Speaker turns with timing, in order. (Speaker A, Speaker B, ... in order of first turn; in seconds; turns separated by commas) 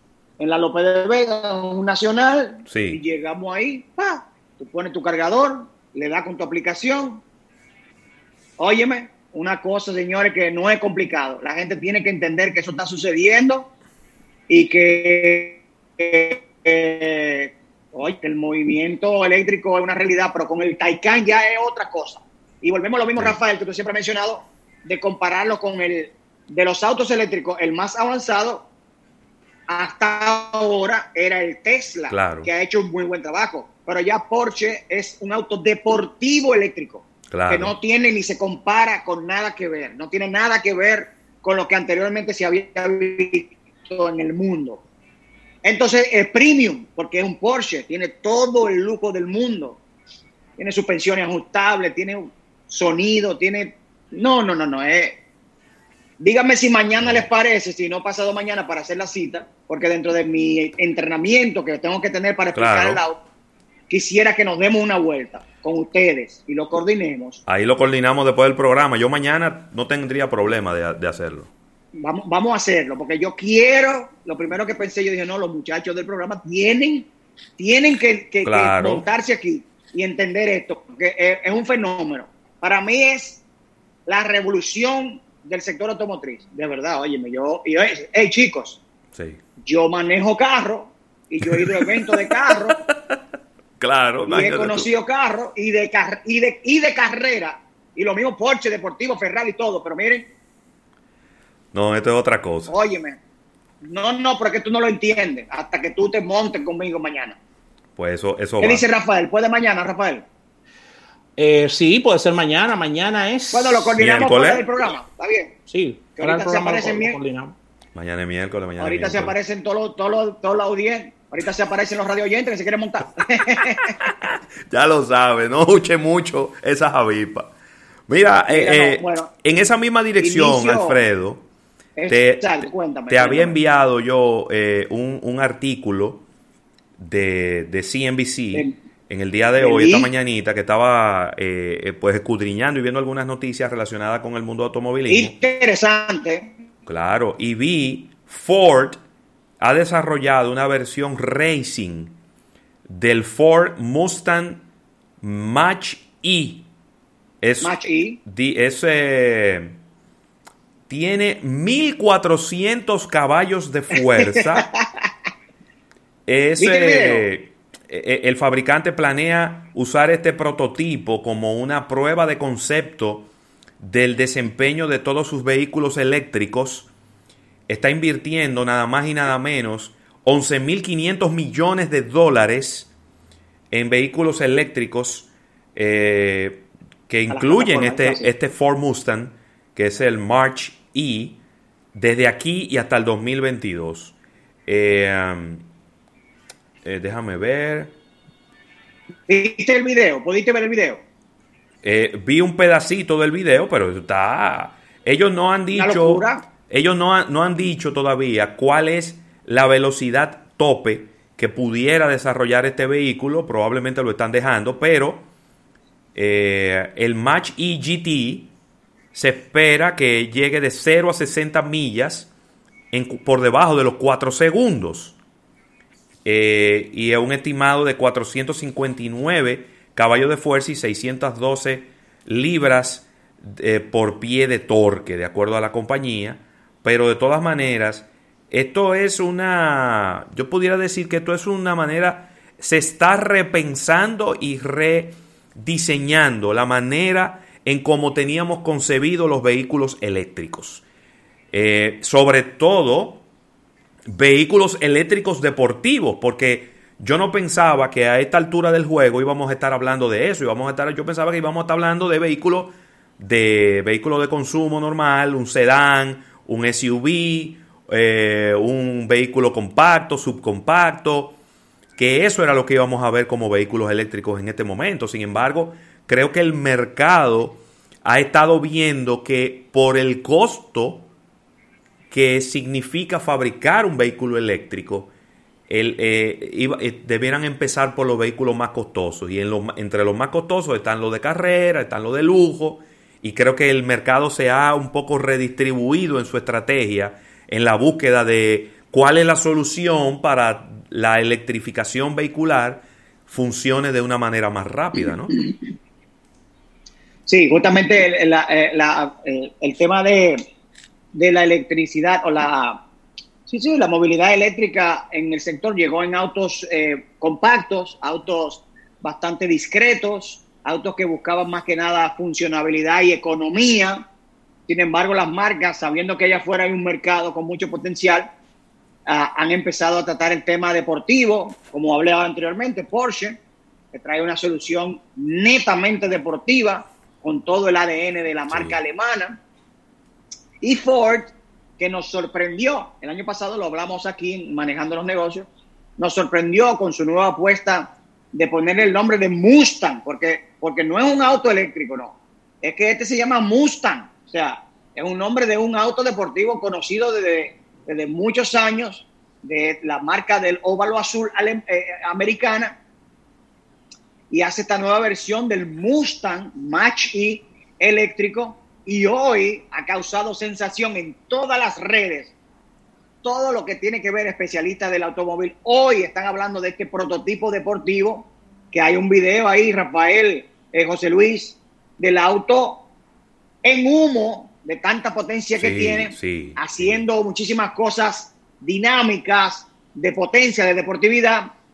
Speaker A: 0.4-7.2, Speaker B: 2.7-3.0, Speaker A: 8.6-13.7, Speaker A: 14.5-28.7, Speaker A: 29.7-44.8, Speaker B: 32.1-32.5, Speaker B: 37.3-37.7, Speaker A: 45.6-49.8, Speaker A: 50.6-55.2, Speaker A: 56.2-63.2, Speaker B: 57.0-57.3, Speaker B: 62.5-63.0, Speaker A: 63.9-67.4, Speaker B: 67.5-71.5, Speaker A: 72.0-83.4, Speaker B: 78.4-79.0, Speaker A: 84.0-88.8, Speaker B: 89.1-89.4, Speaker A: 89.6-92.8, Speaker B: 91.4-93.2, Speaker B: 93.8-94.9, Speaker A: 94.2-100.3, Speaker B: 101.7-102.7, Speaker A: 102.7-103.2, Speaker A: 103.8-107.4, Speaker B: 108.0-108.8, Speaker A: 108.6-110.2, Speaker C: 111.4-114.0, Speaker A: 113.5-115.5, Speaker B: 114.0-114.7, Speaker C: 115.7-117.5, Speaker A: 116.2-117.2, Speaker B: 117.9-119.3, Speaker A: 118.8-124.0, Speaker B: 123.8-127.5, Speaker B: 128.1-131.4, Speaker A: 128.5-129.3, Speaker A: 130.2-131.0, Speaker A: 132.0-133.6, Speaker B: 132.1-136.2, Speaker B: 137.0-145.3, Speaker A: 139.6-140.1, Speaker A: 145.1-146.5, Speaker B: 146.8-149.0, Speaker B: 149.6-152.1, Speaker B: 152.9-154.6, Speaker B: 155.2-156.7, Speaker B: 157.4-159.7, Speaker A: 157.6-158.2, Speaker B: 160.9-164.7, Speaker A: 164.4-164.8, Speaker B: 166.3-173.3, Speaker A: 166.6-167.3, Speaker B: 173.8-176.9, Speaker B: 177.7-182.9, Speaker B: 183.7-191.4, Speaker A: 187.3-188.3, Speaker B: 191.9-194.1, Speaker B: 194.7-195.6, Speaker B: 196.8-197.9, Speaker A: 199.3-201.0, Speaker B: 201.8-215.2, Speaker A: 205.7-206.4, Speaker B: 216.1-218.5, Speaker B: 219.1-222.3, Speaker B: 222.9-225.2, Speaker B: 226.2-250.8, Speaker B: 251.5-253.2, Speaker B: 254.1-271.4, Speaker B: 271.9-281.1, Speaker B: 282.1-285.1, Speaker B: 285.7-305.4, Speaker A: 307.3-310.4, Speaker A: 311.1-312.8, Speaker A: 313.5-324.0, Speaker A: 324.7-328.3, Speaker A: 329.1-333.4, Speaker A: 333.9-339.4, Speaker B: 338.5-338.8, Speaker A: 340.6-362.8, Speaker A: 364.3-372.3, Speaker A: 373.2-382.8, Speaker A: 383.6-391.5, Speaker B: 385.6-387.0